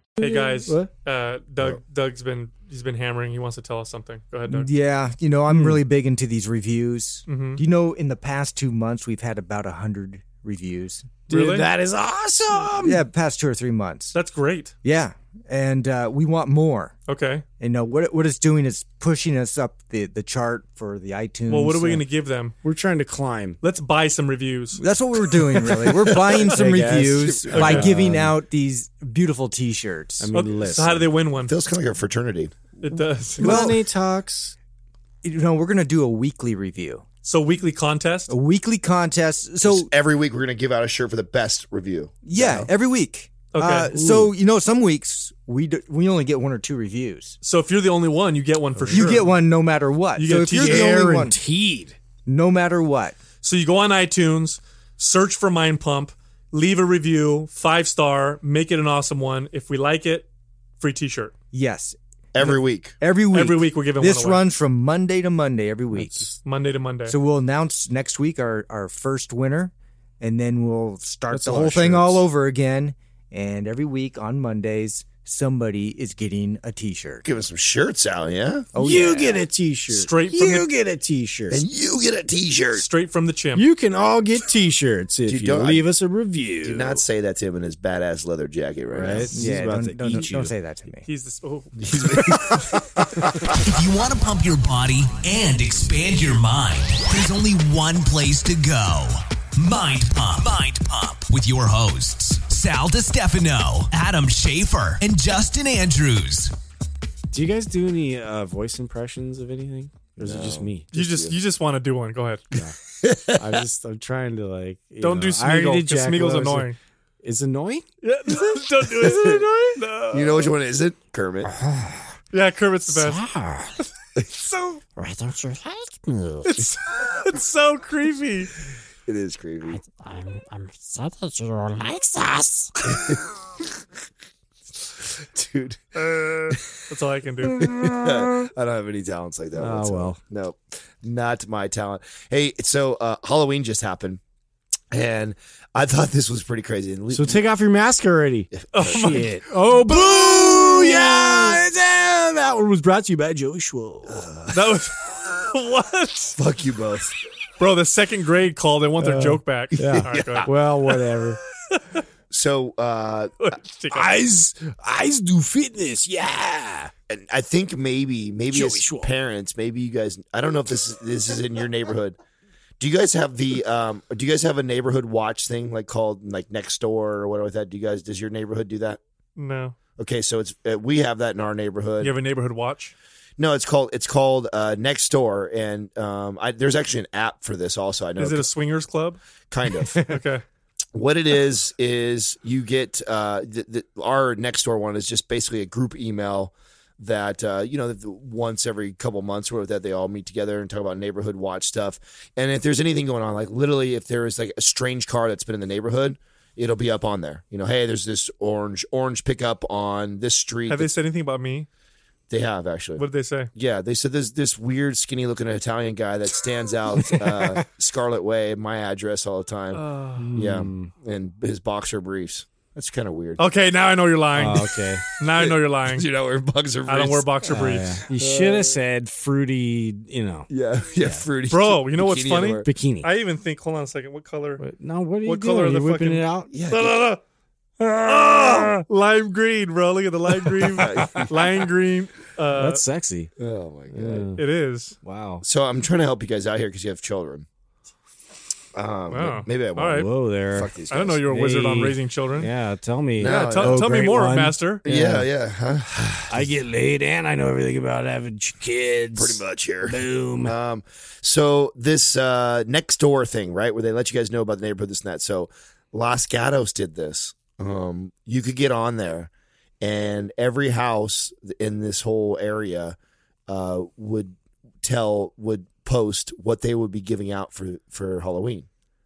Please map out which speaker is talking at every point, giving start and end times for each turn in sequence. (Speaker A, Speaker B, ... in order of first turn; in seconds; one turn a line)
Speaker A: 0.2-0.9
Speaker B: 0.2-4.7
Speaker C: 4.5-11.2
Speaker A: 5.5-5.8
Speaker B: 7.3-7.6
Speaker B: 11.3-11.7
Speaker A: 11.3-13.0
Speaker C: 12.8-14.1
Speaker B: 14.1-14.7
Speaker C: 14.8-16.9
Speaker B: 17.1-17.4
Speaker C: 17.6-22.0
Speaker B: 21.5-22.5
Speaker A: 22.6-23.6
Speaker B: 23.6-24.8
Speaker C: 24.8-30.3
Speaker B: 25.4-26.6
Speaker A: 26.3-28.4
Speaker D: 27.2-27.9
Speaker B: 27.5-27.9
Speaker A: 30.2-31.1
Speaker B: 30.3-31.5
Speaker D: 31.4-32.5
Speaker B: 32.8-33.7
Speaker A: 33.4-34.5
Speaker C: 33.4-33.8
Speaker C: 35.2-37.0
Speaker B: 37.2-38.3
Speaker C: 38.3-39.9
Speaker D: 39.6-42.7
Speaker C: 42.2-47.4
Speaker B: 43.5-43.9
Speaker A: 43.9-44.3
Speaker B: 47.4-49.3
Speaker A: 48.7-49.3
Speaker C: 48.9-51.4
Speaker B: 50.1-51.0
Speaker A: 50.5-52.0
Speaker C: 52.2-53.1
Speaker B: 53.4-60.3
Speaker B: 60.8-61.3
Speaker C: 61.5-66.3
Speaker D: 62.3-63.0
Speaker B: 63.3-64.4
Speaker A: 65.9-66.4
Speaker B: 66.4-67.2
Speaker C: 67.1-77.2
Speaker A: 71.3-72.3
Speaker D: 77.2-78.7
Speaker C: 78.7-79.5
Speaker A: 78.8-81.6
Speaker B: 79.9-80.7
Speaker D: 81.5-82.8
Speaker B: 82.7-83.7
Speaker A: 83.5-87.0
Speaker D: 85.3-85.8
Speaker D: 86.6-89.3
Speaker A: 88.9-90.5
Speaker C: 89.3-91.1
Speaker B: 91.0-92.3
Speaker D: 91.8-92.8
Speaker E: 93.7-106.5
Speaker A: 107.3-110.9
Speaker D: 110.2-111.3
Speaker B: 110.9-112.5
Speaker D: 113.0-113.6
Speaker A: 113.3-117.8
Speaker B: 115.0-116.8
Speaker B: 118.0-120.5
Speaker D: 119.0-119.4
Speaker D: 120.1-121.5
Speaker A: 121.5-122.1
Speaker B: 122.3-123.2
Speaker A: 122.9-123.8
Speaker A: 124.9-126.7
Speaker B: 126.5-128.5
Speaker D: 129.1-129.8
Speaker A: 129.7-132.9
Speaker D: 132.9-133.2
Speaker D: 135.0-136.6
Speaker B: 136.0-137.7
Speaker A: 137.6-138.3
Speaker D: 137.6-144.2
Speaker A: 139.6-140.2
Speaker D: 144.9-147.4
Speaker A: 147.1-154.2
Speaker D: 148.6-149.2
Speaker B: 148.7-149.4
Speaker D: 154.1-154.8
Speaker B: 154.5-156.4
Speaker D: 156.4-157.1
Speaker B: 157.6-160.5
Speaker A: 159.0-161.4
Speaker D: 159.7-160.5
Speaker B: 161.7-162.0
Speaker D: 162.3-163.4
Speaker B: 163.4-164.2
Speaker A: 163.9-166.9
Speaker D: 167.1-172.2
Speaker A: 168.5-169.1
Speaker D: 172.8-179.0
Speaker B: 179.3-179.8
Speaker D: 180.0-182.1
Speaker B: 182.0-182.9
Speaker D: 183.4-188.5
Speaker B: 188.2-189.2
Speaker D: 189.5-190.0
Speaker B: 189.9-190.4
Speaker D: 190.9-210.9
Speaker B: 210.7-211.7
Speaker D: 212.3-213.0
Speaker B: 213.0-213.5
Speaker D: 213.5-219.8
Speaker A: 217.0-217.6
Speaker B: 219.7-220.3
Speaker A: 220.2-220.9
Speaker D: 220.3-223.4
Speaker B: 223.4-226.1
Speaker A: 224.3-225.1
Speaker D: 225.3-227.3
Speaker B: 226.9-228.0
Speaker A: 227.5-231.2
Speaker D: 228.1-228.8
Speaker D: 230.5-232.7
Speaker B: 231.5-234.6
Speaker A: 232.6-233.1
Speaker A: 234.6-237.2
Speaker B: 235.2-237.2
Speaker D: 236.5-236.9
Speaker A: 237.8-238.8
Speaker B: 238.0-242.8
Speaker A: 240.5-241.2
Speaker D: 240.7-241.3
Speaker A: 242.5-243.3
Speaker D: 243.4-244.3
Speaker A: 243.9-244.4
Speaker B: 244.4-245.0
Speaker A: 245.0-245.4
Speaker D: 245.4-247.5
Speaker D: 248.7-251.2
Speaker B: 249.1-250.1
Speaker A: 249.9-250.7
Speaker B: 250.9-252.5
Speaker A: 251.3-255.3
Speaker D: 253.2-253.8
Speaker B: 253.2-254.8
Speaker D: 254.8-256.5
Speaker A: 256.3-260.5
Speaker D: 259.1-269.3
Speaker D: 269.8-272.9
Speaker D: 273.5-278.7